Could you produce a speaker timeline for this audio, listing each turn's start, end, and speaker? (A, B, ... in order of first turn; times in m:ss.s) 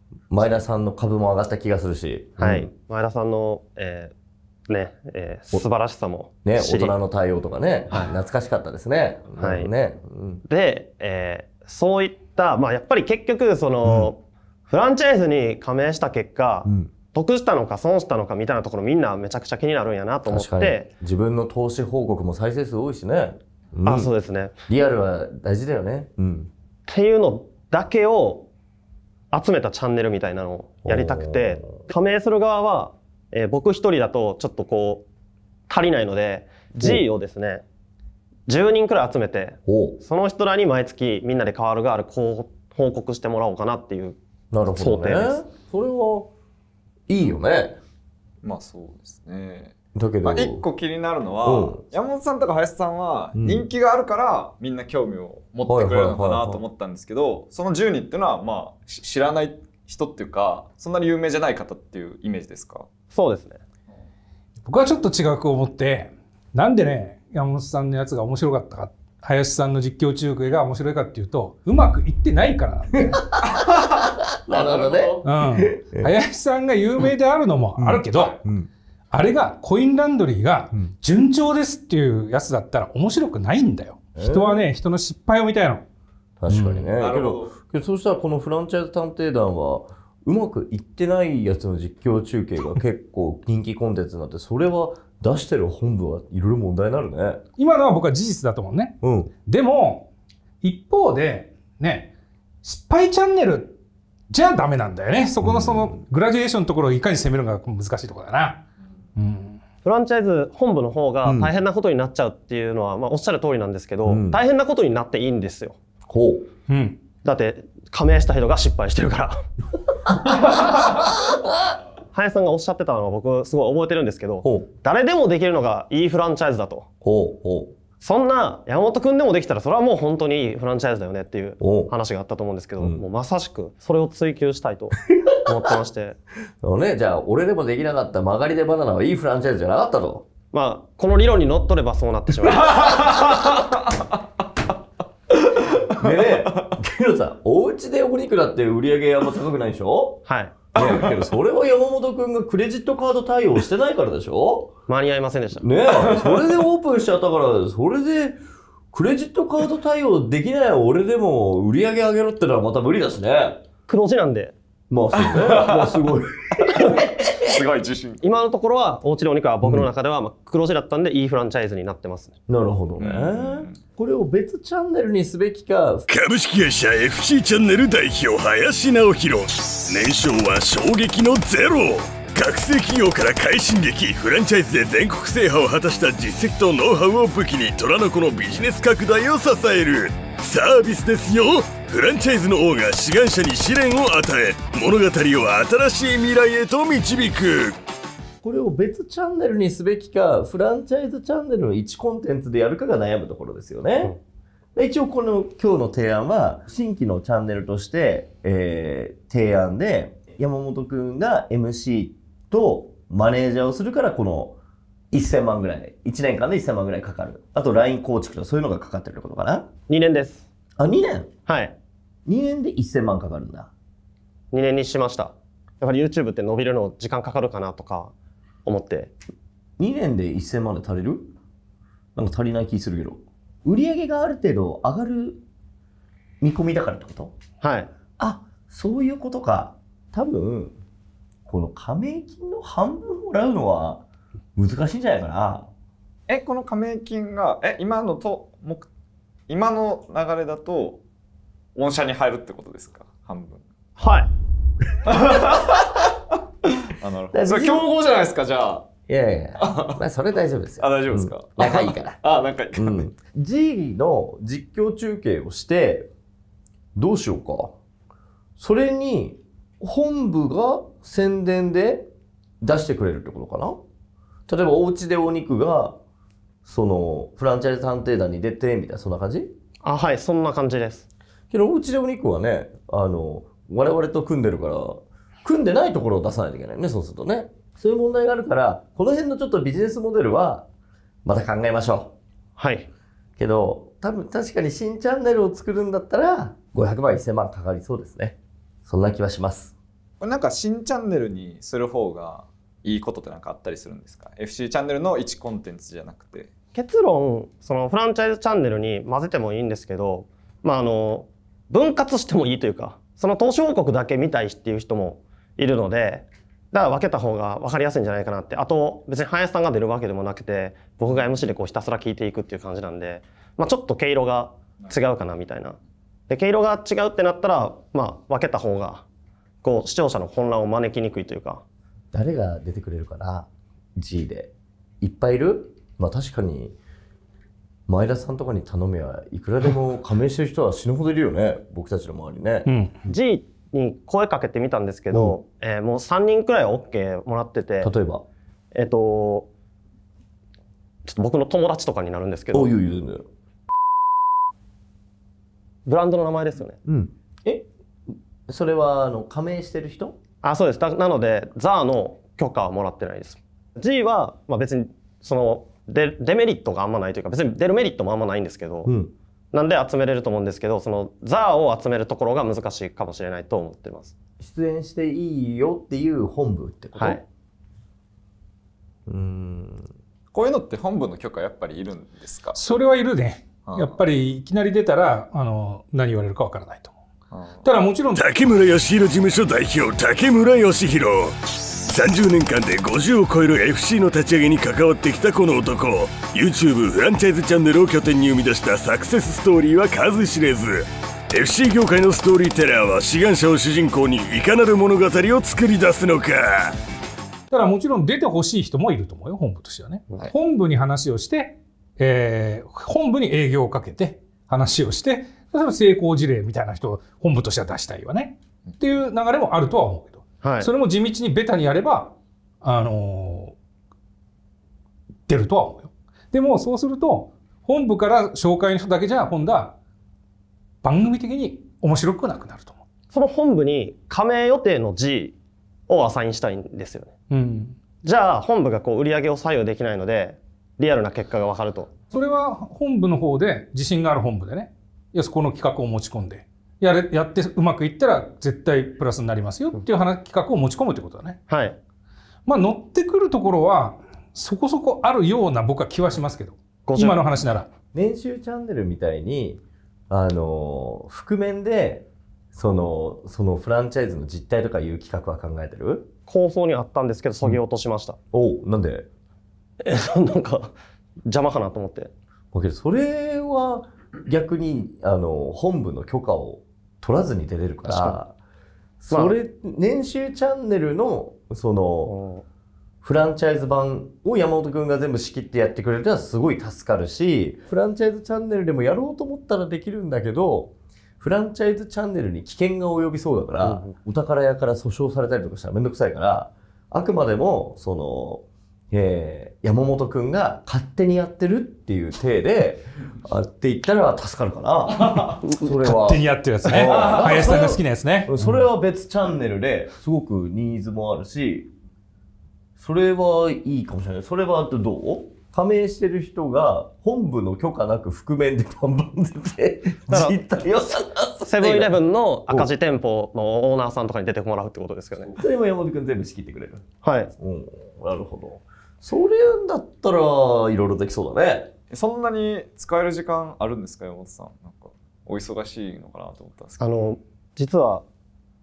0:00.3-0:02.7 A
0:02.4-0:04.1 B
0:04.7-0:07.0 B
0:06.4-0:10.4 A
0:09.4-0:09.7 B
0:10.4-0:20.9 B
0:13.8-0:14.1 A
0:16.6-0:16.9 A
0:20.3-0:24.1 A
0:23.8-0:24.5 B
0:24.7-0:26.5 A
0:26.9-0:28.5 B
0:29.3-0:35.0 B
0:30.8-0:31.8 A
0:35.7-0:37.6 B
0:38.5-0:44.2 B
0:39.6-0:40.0 A
0:44.5-0:46.3 A
0:44.7-0:45.4 B
0:47.1-0:47.8 A
0:48.4-1:02.8 C
0:49.9-0:50.6 A
0:51.4-0:51.8 A
0:53.3-0:53.6 A
0:55.7-0:56.6 A
1:03.1-1:03.6 B
1:04.6-1:13.3 D
1:13.4-1:16.1 A
1:15.2-1:18.4 D
1:17.8-1:18.7 A
1:19.1-1:25.8 D
1:24.2-1:24.6 A
1:26.4-1:37.4 A
1:26.5-1:26.9 D
1:27.0-1:27.5 C
1:37.6-1:40.1 D
1:39.0-1:39.3 A
1:40.6-1:42.1 D
1:42.6-1:43.8 D
1:44.3-1:48.6 D
1:45.4-1:46.0 A
1:49.2-1:49.6 D
1:49.8-1:55.8 B
1:51.2-1:51.5 A
1:54.0-1:54.4 A
1:56.1-1:56.5 A
1:56.7-1:57.0 D
1:57.2-1:59.4 B
2:00.3-2:00.7 B
2:02.1-2:06.8 B
2:04.4-2:04.7 A
2:07.0-2:07.7 A
2:08.0-2:16.2 B
2:11.6-2:11.9 A
2:16.6-2:20.2 A
2:20.5-2:23.1 B
2:25.9-2:30.2 A
2:30.2-2:30.6 B
2:30.7-2:34.7 A
2:34.9-2:35.7 B
2:35.6-2:38.4 A
2:38.9-2:43.6 A
2:43.9-2:44.5 B
2:44.9-2:47.6 A
2:45.4-2:45.9 C
2:47.4-2:48.2 C
2:48.2-2:52.4 B
2:49.6-2:49.9 A
2:52.5-2:56.1 A
2:53.0-2:53.8 C
2:56.1-3:17.8 E
3:18.4-3:24.1 A
3:24.8-3:34.6 A
3:35.1-3:39.7 A
3:39.9-3:40.4 B
3:40.8-3:41.3 A
3:41.4-3:41.7 B
3:42.2-3:43.7 A
3:44.5-3:48.1 B
3:48.6-3:49.1 B
3:49.8-3:51.3 A
3:52.1-3:55.4 A
3:56.4-3:57.3 A
3:57.6-3:57.9 B
3:58.2-4:00.8 A
4:01.5-4:04.0 A
4:04.6-4:05.7 A
4:06.3-4:08.9 C
4:09.5-4:11.0 C
4:11.7-4:13.6 C
4:14.0-4:14.3 B
4:15.1-4:15.9 C
4:17.0-4:18.8 C
4:17.3-4:17.9 A
4:19.0-4:22.2 A
4:19.6-4:20.0 C
4:20.8-4:23.1 C
4:22.7-4:26.1 A
4:26.9-4:27.8 A
4:28.6-4:32.1 A
4:32.6-4:33.8 A
4:34.5-4:36.0 A
4:36.6-4:39.5 A
4:39.8-4:41.0 B
4:41.5-4:50.6 A
4:51.2-4:52.1 A
4:52.6-4:52.9 B
4:53.4-4:59.7 A
5:00.2-5:06.5 C
5:06.7-5:25.8 B
5:26.3-5:29.0 B
5:29.6-5:31.6 B
5:32.1-5:36.8 A
5:37.9-5:42.7 A
5:42.6-5:42.9 D
5:43.1-5:47.9 B
5:47.8-5:48.2 A
5:48.7-5:49.5 B
5:51.0-5:52.7 B
5:52.5-5:53.2 A
5:55.8-5:56.8 B
5:56.8-5:57.7 A
5:58.5-6:00.2 A
6:00.4-6:08.9 B
6:08.8-6:09.1 A
6:09.5-6:14.1 B
6:14.4-6:17.2 A
6:17.0-6:17.2 B
6:19.1-6:19.9 A
6:20.3-6:22.6 C
6:22.5-6:26.9 D
6:23.6-6:24.0 C
6:27.3-6:27.7 C
6:27.6-6:28.2 D
6:28.1-6:31.4 E
6:31.9-6:46.8 E
6:47.5-7:03.5 D
7:00.4-7:00.7 B
7:05.3-7:09.7 D
7:10.8-7:12.8 D
7:13.1-7:15.4 B
7:15.9-7:17.1 B
7:17.3-7:17.8 D
7:18.0-7:21.9 B
7:22.1-7:31.4 D
7:31.5-7:31.8 B
7:32.4-7:37.7 D
7:36.9-7:37.3 B
7:37.9-7:46.1 A
7:46.3-7:48.2 B
7:48.3-7:49.1 A
7:49.8-7:50.7 B
7:51.3-7:52.1 B
7:52.5-7:58.4 A
7:57.9-7:58.2 B
7:59.0-8:02.1 A
7:59.1-7:59.4 B
8:02.0-8:02.4 B
8:03.0-8:31.7 A
8:13.6-8:14.0 B
8:25.6-8:28.6 D
8:32.8-8:42.7 A
8:40.1-8:40.4 B
8:41.5-8:45.4 B
8:45.4-8:46.8 A
8:47.0-8:47.3 B
8:47.4-8:51.7 A
8:51.9-8:56.8 C
8:56.8-8:58.0 B